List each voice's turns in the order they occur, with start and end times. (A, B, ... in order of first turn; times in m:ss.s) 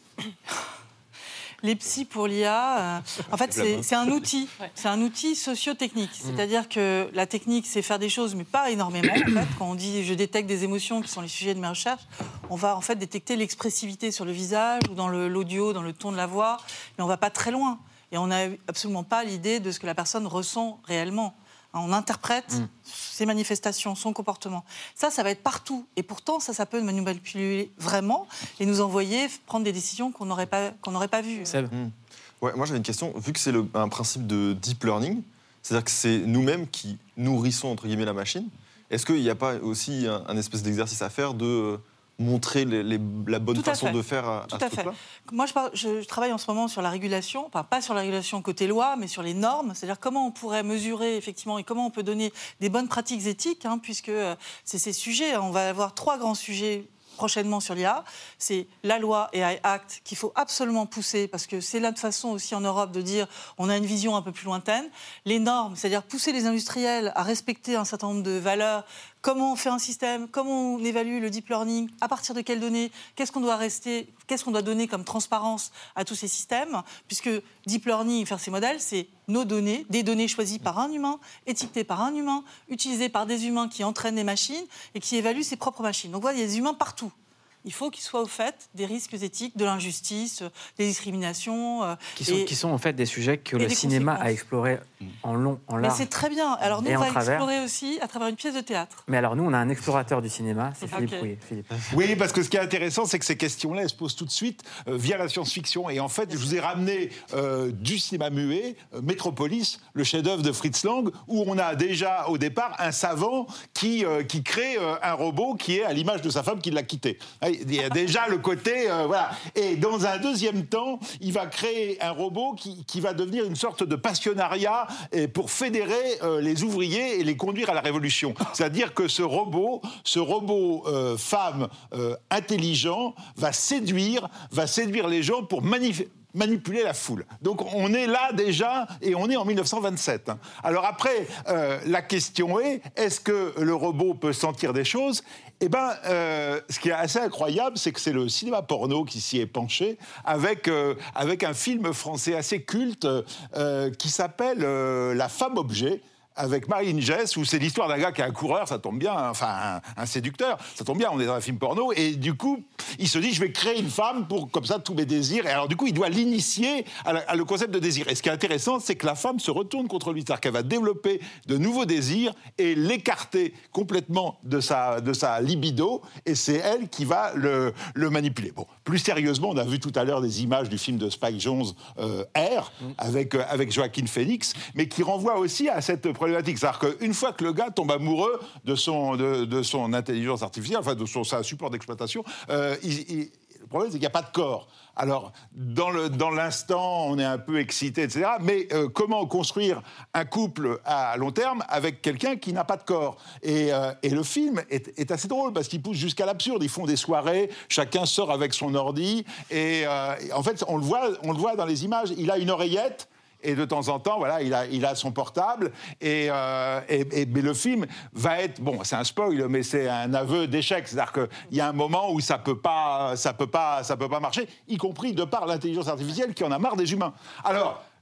0:01.6-0:31.6 A
0:03.2-0:03.9 B
0:31.4-0:31.7 C
0:31.7-0:45.0 B
0:43.5-1:27.1 A
1:27.6-1:32.5 A
1:32.2-1:36.1 C
1:33.6-1:34.3 A
1:35.8-1:39.0 A
1:36.8-1:37.5 C
1:39.1-1:41.7 C
1:40.9-1:41.3 A
1:41.9-3:47.8 D